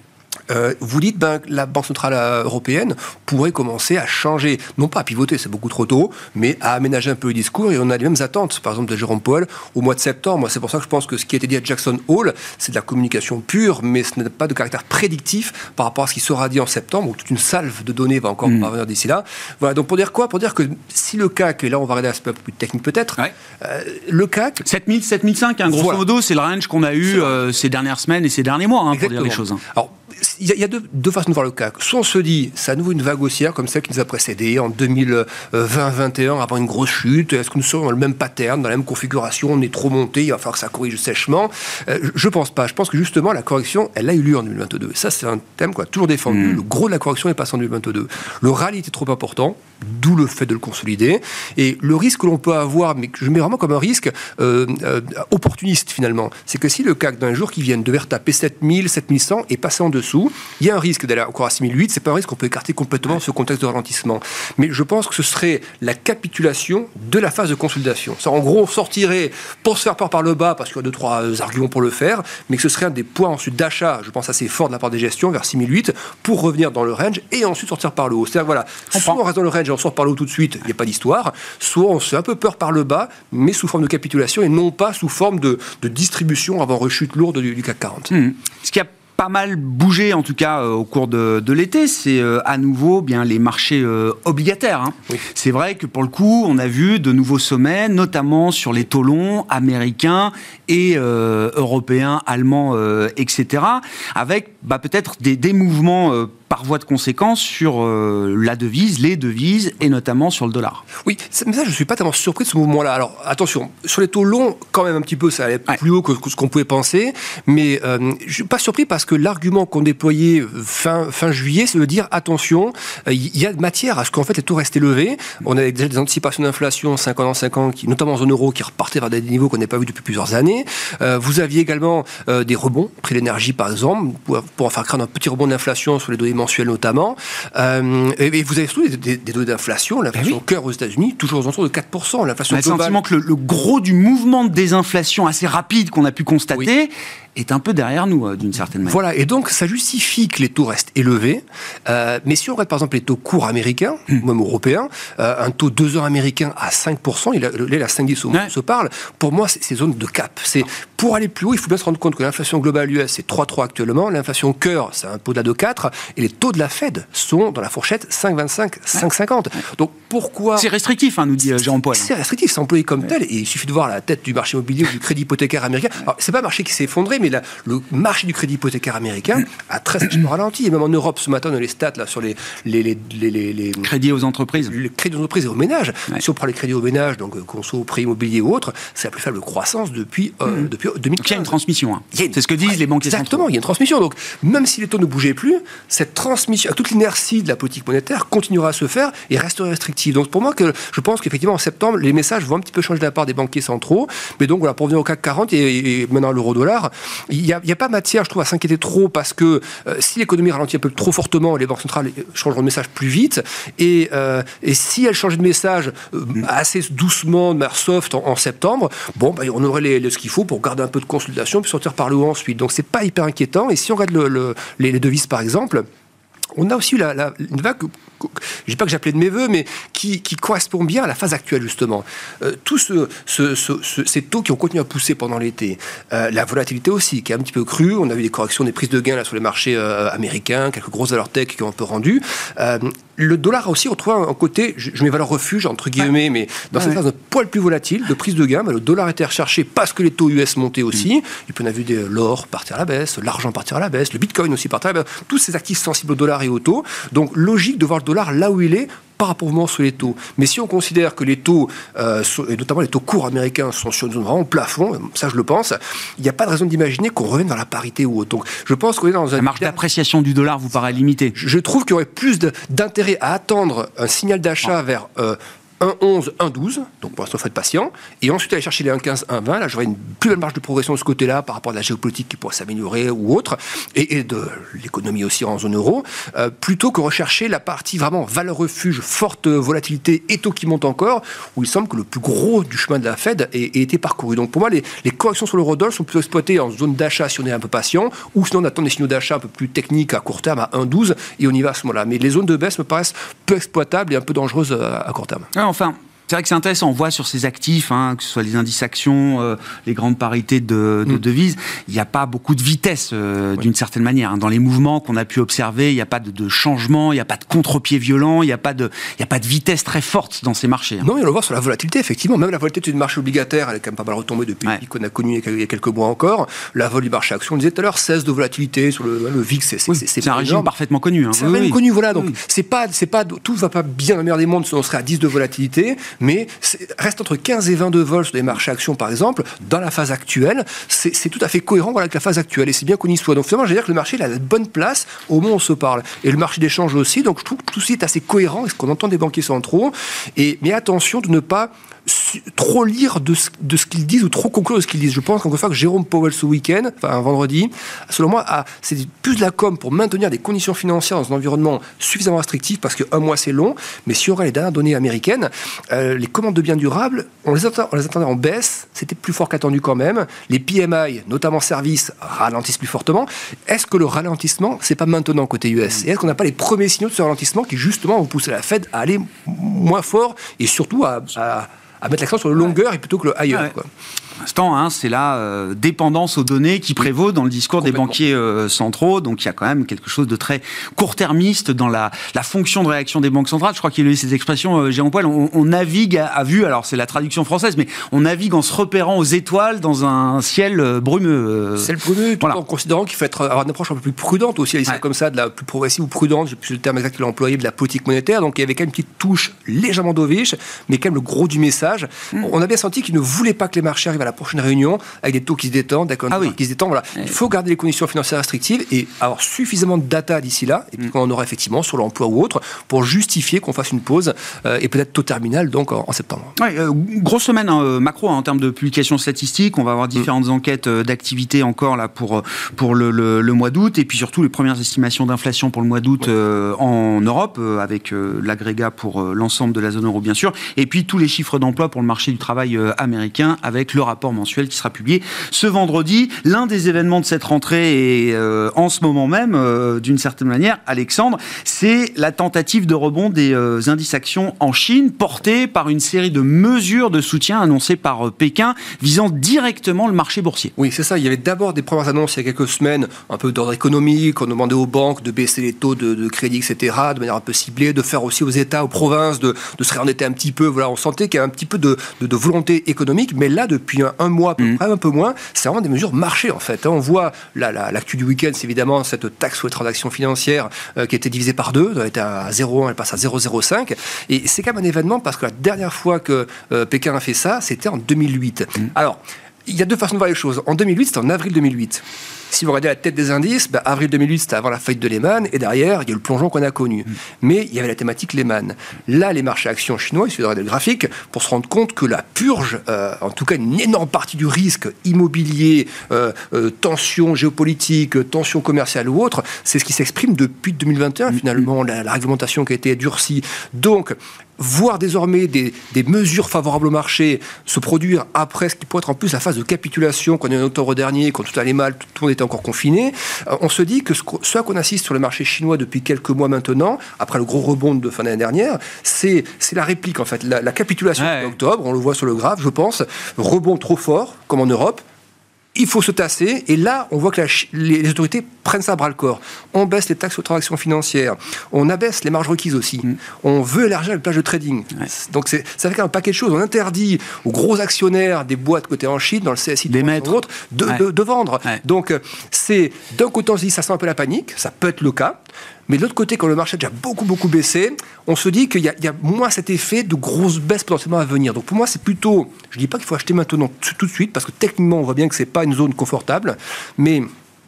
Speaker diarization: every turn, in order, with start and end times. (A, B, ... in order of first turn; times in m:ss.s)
0:00.5-0:24.6 A
0:24.6-0:29.6 B
0:25.7-0:26.0 A
0:27.1-0:27.4 A
0:28.9-1:28.1 A
1:28.1-1:50.8 B
1:51.0-2:23.0 A
2:22.5-2:29.0 B
2:28.8-2:50.7 A
2:50.6-2:52.1 B
2:51.9-3:03.9 A
3:03.8-3:04.7 B
3:04.7-3:11.5 A
3:11.2-3:13.5 B
3:12.1-3:45.8 A
3:46.5-4:29.8 A
4:29.4-4:31.3 B
4:31.3-5:05.5 A
5:05.5-5:21.1 B
5:21.0-5:30.7 A
5:30.0-5:32.3 B
5:31.3-6:23.9 A
6:24.4-6:42.6 B
6:41.8-7:06.5 A
7:06.6-7:40.7 B
7:40.8-8:55.0 A
8:51.2-8:51.5 B
8:55.7-9:27.3 A
9:09.9-9:10.3 B